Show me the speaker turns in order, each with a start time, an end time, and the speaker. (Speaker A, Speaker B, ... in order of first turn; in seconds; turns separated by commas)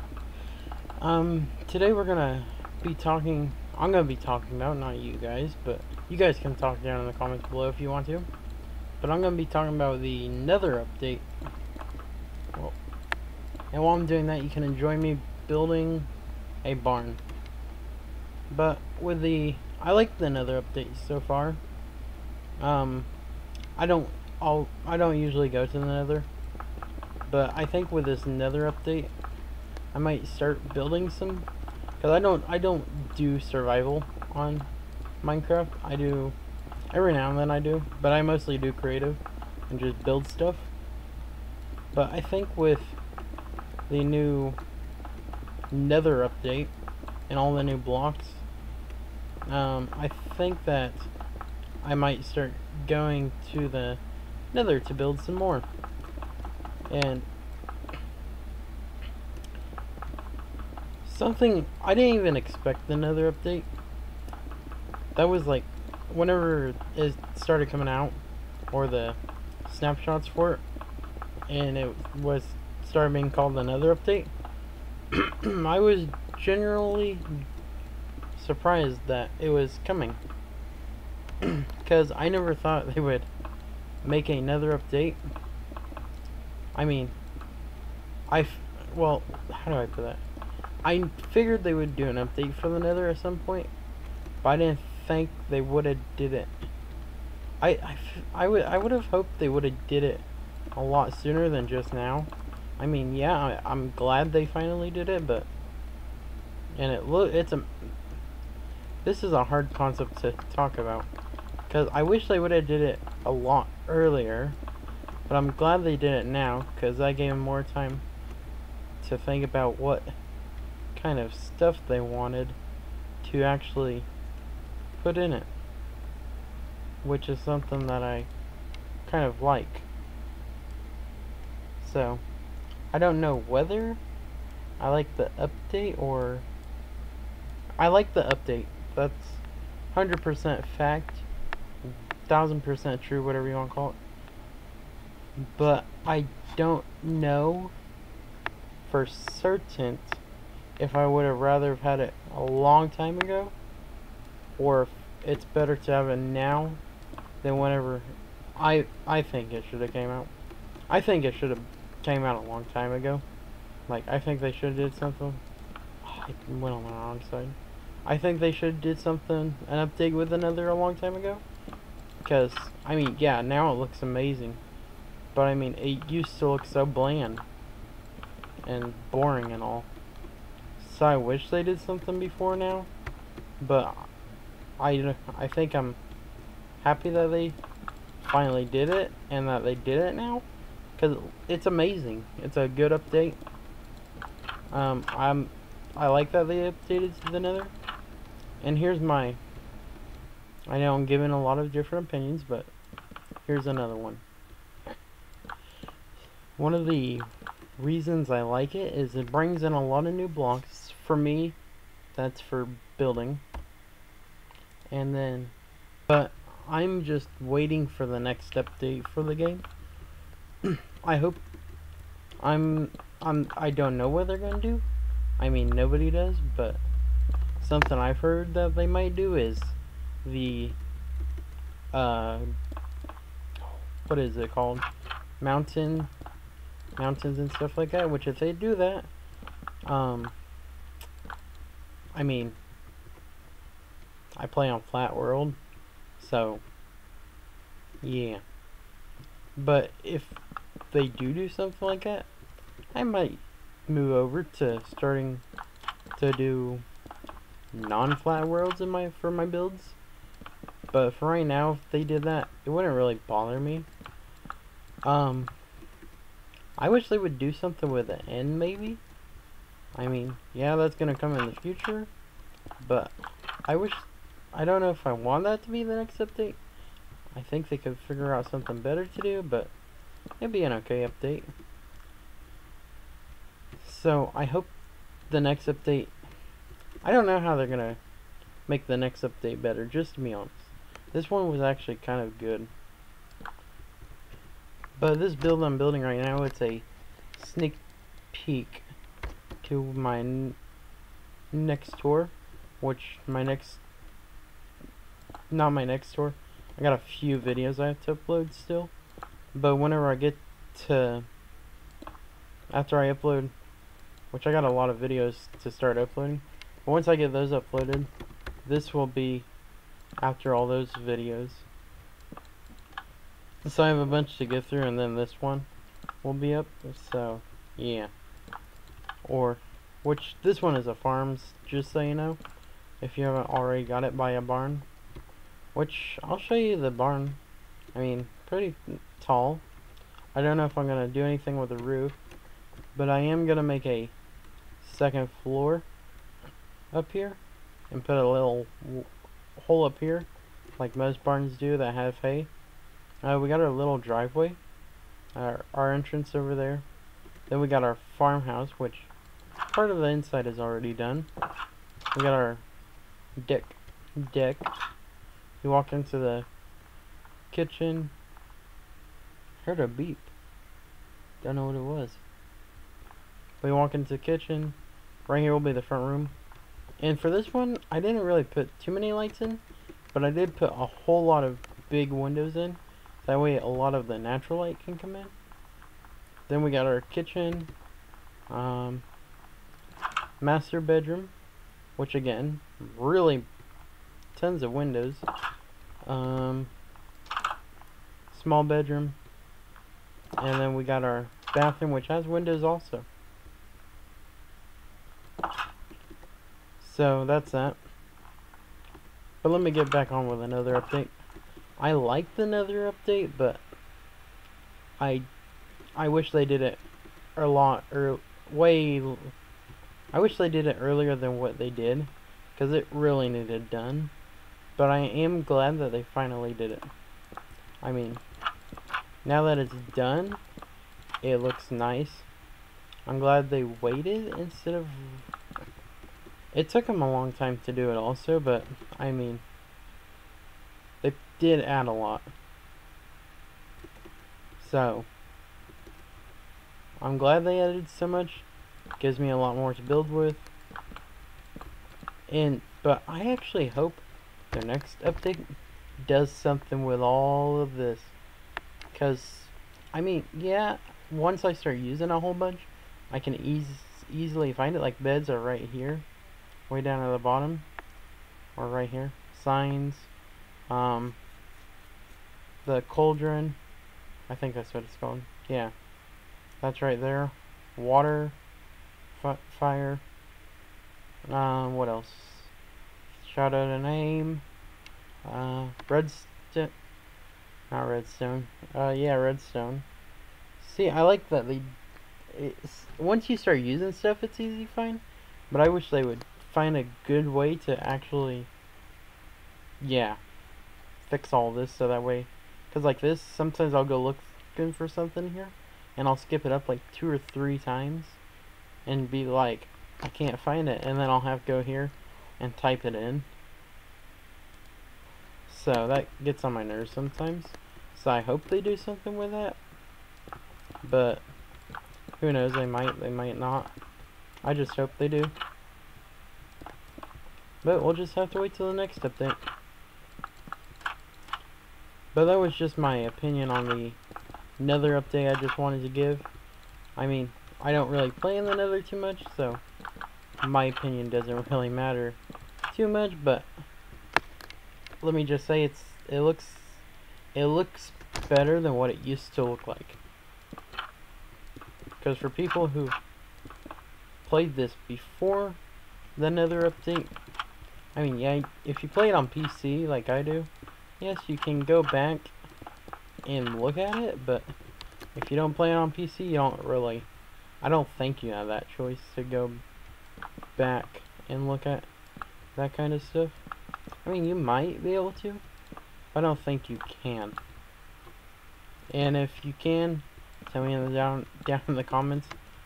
Speaker A: 1.0-8.3, Speaker A: 9.0-11.2, Speaker A: 13.7-16.1, Speaker A: 16.6-17.2, Speaker A: 18.5-21.6, Speaker A: 22.6-23.1, Speaker A: 23.8-26.3, Speaker A: 27.3-29.1, Speaker A: 29.9-31.5, Speaker A: 32.0-34.7, Speaker A: 35.2-36.4, Speaker A: 36.9-40.7, Speaker A: 41.9-43.0, Speaker A: 43.9-44.6, Speaker A: 45.7-46.7, Speaker A: 47.3-48.4, Speaker A: 49.5-51.1, Speaker A: 51.8-54.0, Speaker A: 54.5-55.7, Speaker A: 56.9-57.3, Speaker A: 61.0-63.7, Speaker A: 65.2-68.2, Speaker A: 68.7-70.6, Speaker A: 71.5-74.3, Speaker A: 75.1-77.3, Speaker A: 78.4-80.2, Speaker A: 81.4-83.3, Speaker A: 84.0-85.2, Speaker A: 86.7-87.2, Speaker A: 88.3-90.2, Speaker A: 90.8-93.7, Speaker A: 94.4-96.5, Speaker A: 97.6-105.5, Speaker A: 106.8-107.9, Speaker A: 109.0-111.1, Speaker A: 111.7-114.6, Speaker A: 115.3-118.0, Speaker A: 119.0-120.1, Speaker A: 120.9-122.6, Speaker A: 123.2-124.1, Speaker A: 125.0-125.5, Speaker A: 127.0-128.3, Speaker A: 129.1-129.9, Speaker A: 131.8-132.2, Speaker A: 132.9-134.0, Speaker A: 134.8-136.5, Speaker A: 137.8-141.2, Speaker A: 141.8-144.0, Speaker A: 145.5-147.7, Speaker A: 148.8-150.2, Speaker A: 150.8-153.5, Speaker A: 154.6-156.8, Speaker A: 157.4-160.3, Speaker A: 160.9-163.2, Speaker A: 163.9-165.4, Speaker A: 166.0-171.4, Speaker A: 172.2-174.6, Speaker A: 175.3-177.4, Speaker A: 178.6-179.9, Speaker A: 180.8-182.9, Speaker A: 183.6-184.1, Speaker A: 184.8-186.0, Speaker A: 186.8-187.6, Speaker A: 188.2-190.5, Speaker A: 191.0-193.4, Speaker A: 194.7-197.7, Speaker A: 198.6-199.4, Speaker A: 200.7-202.7, Speaker A: 203.4-204.2, Speaker A: 206.6-207.3, Speaker A: 207.8-211.6, Speaker A: 212.2-213.4, Speaker A: 214.9-215.5, Speaker A: 216.1-219.7, Speaker A: 220.6-221.4, Speaker A: 222.4-224.8, Speaker A: 225.4-226.8, Speaker A: 227.6-230.8, Speaker A: 231.9-232.5, Speaker A: 233.7-234.9, Speaker A: 235.4-236.1, Speaker A: 237.0-239.1, Speaker A: 239.8-240.3, Speaker A: 242.1-242.6, Speaker A: 244.4-245.6, Speaker A: 246.2-246.6, Speaker A: 248.0-248.4, Speaker A: 249.6-250.4, Speaker A: 250.9-252.3, Speaker A: 252.9-255.4, Speaker A: 256.2-256.8, Speaker A: 257.7-260.0, Speaker A: 260.9-263.9, Speaker A: 265.0-265.5, Speaker A: 266.8-269.0, Speaker A: 269.9-272.1, Speaker A: 272.8-276.6, Speaker A: 277.4-279.7, Speaker A: 280.4-281.5, Speaker A: 283.8-284.7, Speaker A: 285.3-286.1, Speaker A: 287.0-288.0, Speaker A: 288.7-292.7, Speaker A: 295.0-298.9, Speaker A: 299.6-300.6, Speaker A: 301.5-303.8, Speaker A: 305.5-308.9, Speaker A: 309.5-311.3, Speaker A: 312.7-313.5, Speaker A: 314.3-318.1, Speaker A: 318.6-319.5, Speaker A: 320.2-321.7, Speaker A: 323.6-325.7, Speaker A: 326.2-328.1, Speaker A: 329.2-332.4, Speaker A: 333.0-334.9, Speaker A: 335.8-337.4, Speaker A: 337.9-339.6, Speaker A: 340.3-342.2, Speaker A: 342.9-344.1, Speaker A: 344.8-345.9, Speaker A: 346.9-352.5, Speaker A: 353.2-354.6, Speaker A: 355.4-356.9, Speaker A: 357.5-359.1, Speaker A: 359.7-361.3, Speaker A: 362.1-362.6, Speaker A: 363.4-364.7, Speaker A: 365.6-366.5, Speaker A: 367.5-368.1, Speaker A: 369.6-370.3, Speaker A: 371.4-372.2, Speaker A: 373.6-374.8, Speaker A: 375.3-376.4, Speaker A: 377.0-379.6, Speaker A: 380.1-385.3, Speaker A: 386.5-387.7, Speaker A: 388.5-389.1, Speaker A: 390.4-391.3, Speaker A: 392.0-393.5, Speaker A: 394.3-395.3, Speaker A: 396.0-396.7, Speaker A: 398.3-399.2, Speaker A: 400.4-403.1, Speaker A: 406.8-407.8, Speaker A: 409.4-411.2, Speaker A: 411.8-413.6, Speaker A: 415.0-415.3, Speaker A: 416.0-416.8, Speaker A: 417.4-419.3, Speaker A: 420.1-424.1, Speaker A: 424.8-426.9, Speaker A: 427.8-428.2, Speaker A: 429.2-430.4, Speaker A: 431.2-432.3, Speaker A: 433.1-435.3, Speaker A: 436.5-439.4, Speaker A: 441.0-442.3, Speaker A: 444.6-445.1, Speaker A: 447.0-448.5, Speaker A: 449.0-450.5, Speaker A: 452.3-455.5, Speaker A: 456.1-458.1, Speaker A: 458.9-466.1, Speaker A: 466.7-467.7, Speaker A: 468.6-470.1, Speaker A: 470.7-471.2, Speaker A: 472.6-473.6, Speaker A: 474.3-475.7, Speaker A: 476.6-478.4, Speaker A: 479.1-480.0, Speaker A: 481.3-482.5, Speaker A: 483.2-484.4, Speaker A: 485.2-486.7, Speaker A: 487.7-489.9, Speaker A: 490.6-491.7, Speaker A: 492.3-498.5, Speaker A: 499.8-500.2, Speaker A: 501.1-508.2, Speaker A: 508.9-513.3, Speaker A: 515.5-519.6, Speaker A: 520.8-521.2, Speaker A: 522.2-523.7, Speaker A: 524.4-525.3, Speaker A: 527.6-529.4, Speaker A: 532.1-534.0, Speaker A: 534.6-536.3, Speaker A: 537.0-539.6, Speaker A: 540.4-543.5, Speaker A: 545.0-546.8, Speaker A: 547.4-550.0, Speaker A: 552.0-553.0, Speaker A: 554.2-555.6, Speaker A: 556.2-557.1, Speaker A: 557.9-562.3, Speaker A: 563.3-564.5, Speaker A: 565.1-567.1, Speaker A: 567.6-569.6, Speaker A: 570.6-571.9, Speaker A: 572.5-573.4, Speaker A: 574.0-575.4, Speaker A: 576.1-577.4, Speaker A: 578.9-582.4